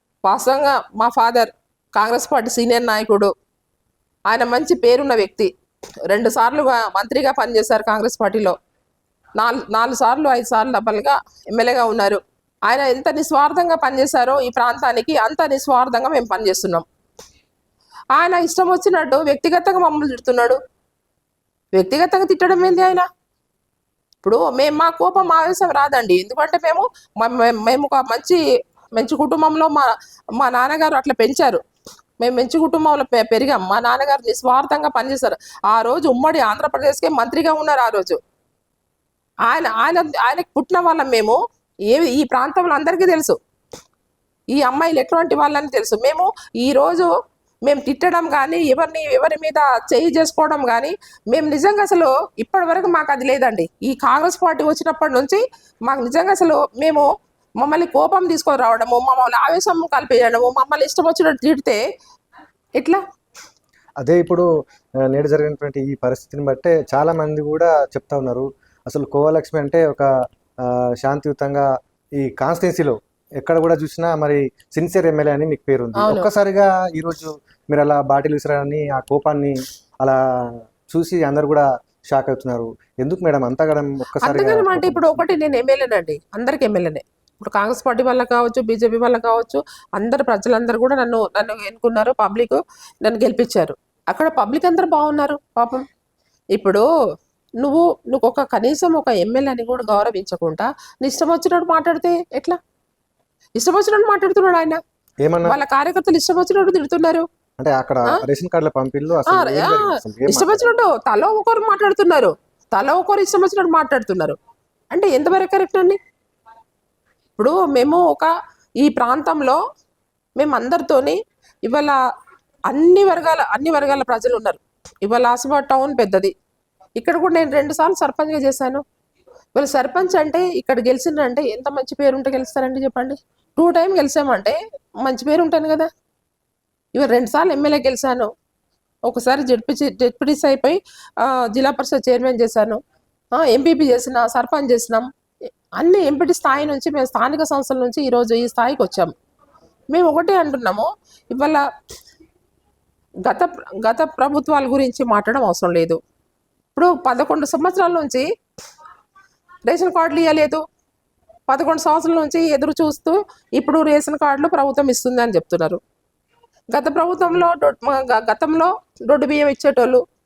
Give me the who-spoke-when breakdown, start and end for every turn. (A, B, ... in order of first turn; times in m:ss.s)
0:00.2-0:03.3 A
0:04.3-0:05.5 A
0:06.1-0:08.5 A
0:09.4-0:16.8 A
0:18.1-0:20.6 A
0:21.8-0:23.0 A
0:24.2-0:28.4 A
0:29.0-0:31.6 A
0:32.2-0:38.2 A
0:39.5-0:41.4 A
0:41.9-0:43.4 A
0:44.5-0:47.1 A
0:47.6-0:57.1 A
0:57.6-1:01.8 A
1:04.0-1:04.4 B
1:05.0-1:10.1 B
1:10.6-1:11.7 B
1:12.2-1:25.3 B
1:16.0-1:16.3 A
1:24.2-1:35.8 A
1:36.5-1:36.8 A
1:37.6-1:42.6 A
1:43.6-1:44.8 A
1:45.2-1:45.6 B
1:45.4-1:47.2 A
1:47.6-1:50.7 B
1:49.3-1:54.4 A
1:54.9-1:56.0 A
1:57.4-1:58.3 A
1:58.8-1:59.6 A
2:00.4-2:02.0 A
2:02.7-2:06.3 A
2:07.0-2:08.8 A
2:09.5-2:15.9 A
2:16.9-2:18.3 A
2:19.1-2:22.8 A
2:23.3-2:25.0 A
2:25.8-2:29.1 A
2:29.9-2:31.6 A
2:33.2-2:36.0 A
2:36.7-2:38.2 A
2:39.6-2:40.6 A
2:41.5-2:45.8 A
2:46.7-2:50.0 A